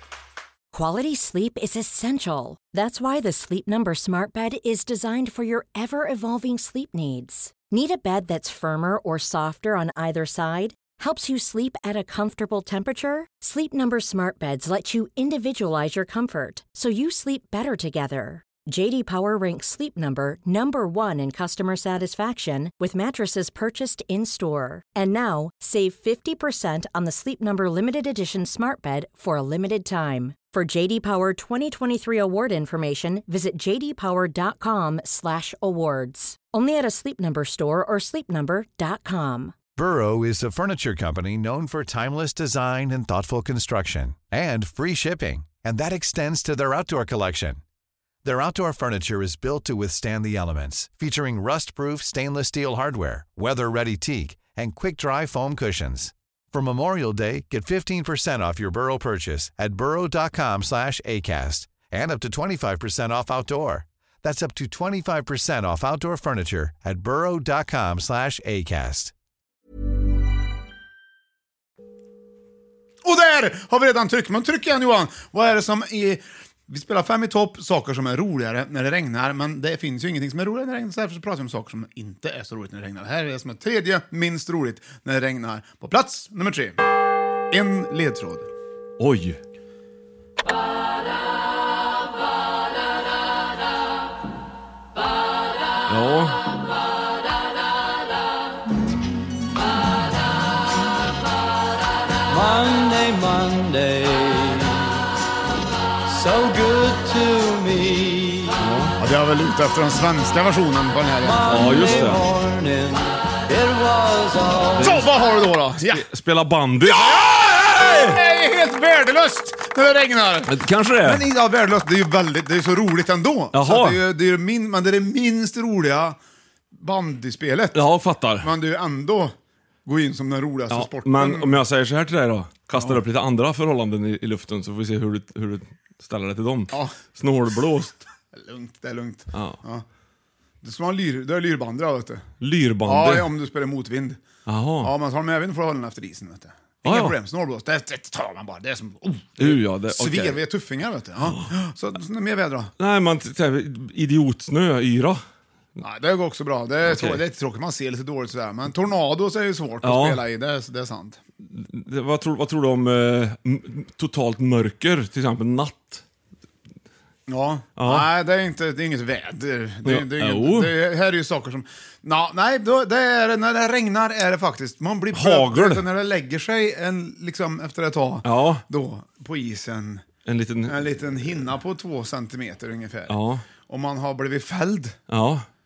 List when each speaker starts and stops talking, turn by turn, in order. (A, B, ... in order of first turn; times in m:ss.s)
0:00.7-0:39.6 A
0:39.8-0:47.6 B
0:48.2-1:09.1 B
1:13.0-1:26.8 C
1:27.5-1:28.5 C
1:29.0-1:29.4 D
1:35.9-1:36.4 D
1:42.3-1:45.0 E
1:46.1-1:48.6 E
1:48.6-1:49.0 D
1:49.0-1:51.6 C
1:51.2-1:54.9 E
1:51.5-1:52.2 D
1:54.8-1:55.0 D
1:54.8-1:56.0 C
1:55.9-1:58.2 D
1:56.8-2:06.2 C
2:00.5-2:01.3 D
2:03.5-2:04.0 D
2:06.7-2:07.8 C
2:07.7-2:08.5 D
2:08.4-2:11.6 C
2:10.7-2:18.1 D
2:16.7-2:17.0 C
2:18.3-2:19.9 C
2:19.3-2:19.6 D
2:20.6-2:22.3 C
2:22.4-2:23.3 D
2:22.8-2:24.2 C
2:24.5-2:24.9 D
2:24.8-2:32.7 C
2:26.8-2:27.2 D
2:29.4-2:30.4 D
2:32.8-2:35.2 D
2:35.8-2:41.2 C
2:36.8-2:37.2 D
2:39.8-2:40.2 D
2:41.4-2:46.0 D
2:47.3-3:00.1 C
2:47.8-2:48.1 D
2:49.8-2:50.7 D
2:55.1-2:55.8 D
2:58.2-2:58.6 D
3:00.2-3:01.4 D
3:00.7-3:05.0 C
3:03.1-3:03.4 D
3:05.1-3:05.5 D